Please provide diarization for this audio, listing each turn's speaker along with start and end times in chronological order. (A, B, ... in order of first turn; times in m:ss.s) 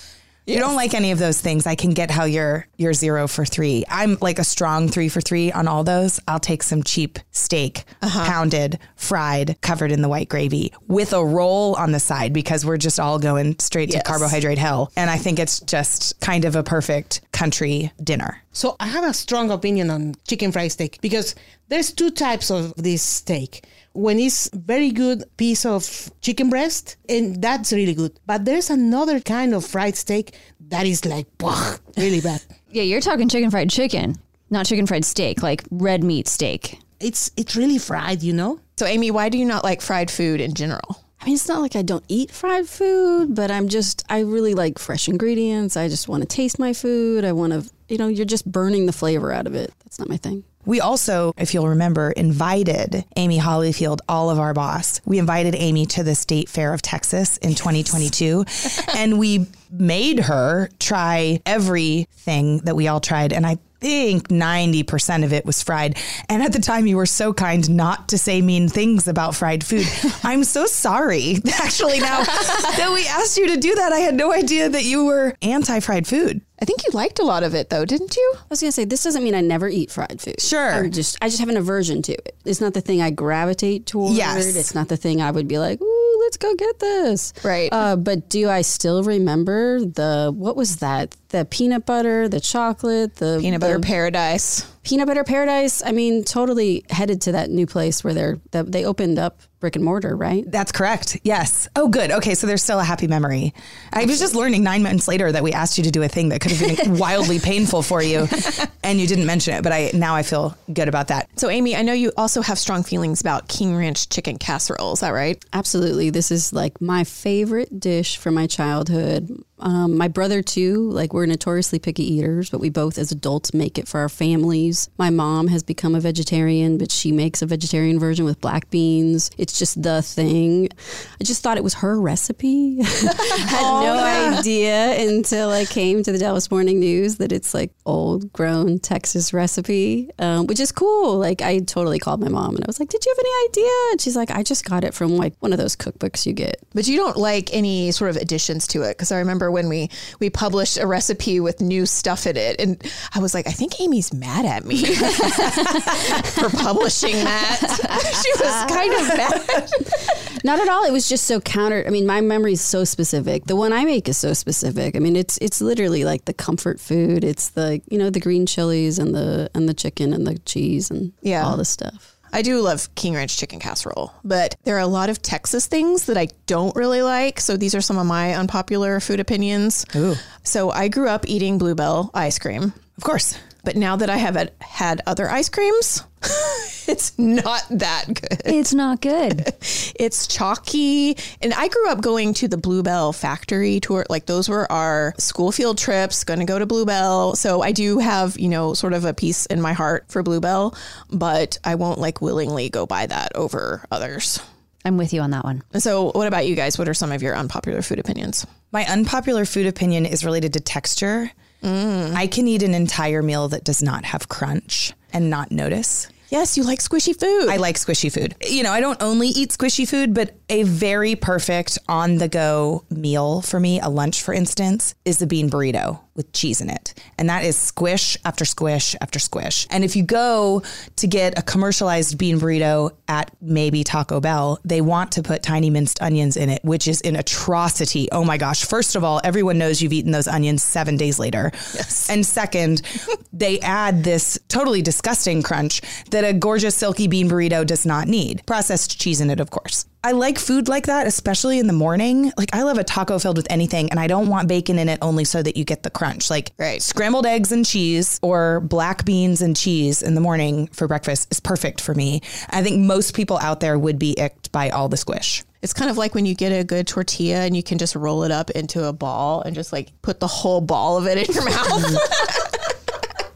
0:00.5-0:18.4 A
0:08.0-0:08.3 B
0:13.9-0:14.3 B
0:18.5-0:32.4 C
0:32.7-0:36.8 D
0:37.0-0:38.6 C
0:38.8-0:41.0 B
0:41.2-0:50.4 E
0:50.6-1:16.4 A
1:16.6-1:18.4 B
1:18.5-1:33.9 E
1:20.4-1:20.9 A
1:24.0-1:24.7 A
1:27.4-1:27.8 B
1:33.4-1:34.7 B
1:34.8-1:40.5 E
1:40.5-1:51.3 A
1:51.4-1:55.4 B
1:55.5-2:26.6 E
2:13.4-2:14.4 A
2:26.7-2:40.1 B
2:40.0-2:52.1 E
2:51.2-2:51.6 B
2:52.3-2:59.9 B
2:59.9-3:00.2 A
3:00.4-3:02.8 B
3:03.0-3:03.4 A
3:03.6-3:08.6 B
3:08.4-3:09.5 D
3:09.4-3:24.4 B
3:24.8-3:25.6 D
3:25.7-3:28.4 B
3:28.7-3:31.3 A
3:31.6-3:32.2 B
3:32.1-3:36.1 A
3:36.3-3:37.6 B
3:37.4-4:25.4 A
4:16.6-4:16.8 B
4:25.6-4:32.5 B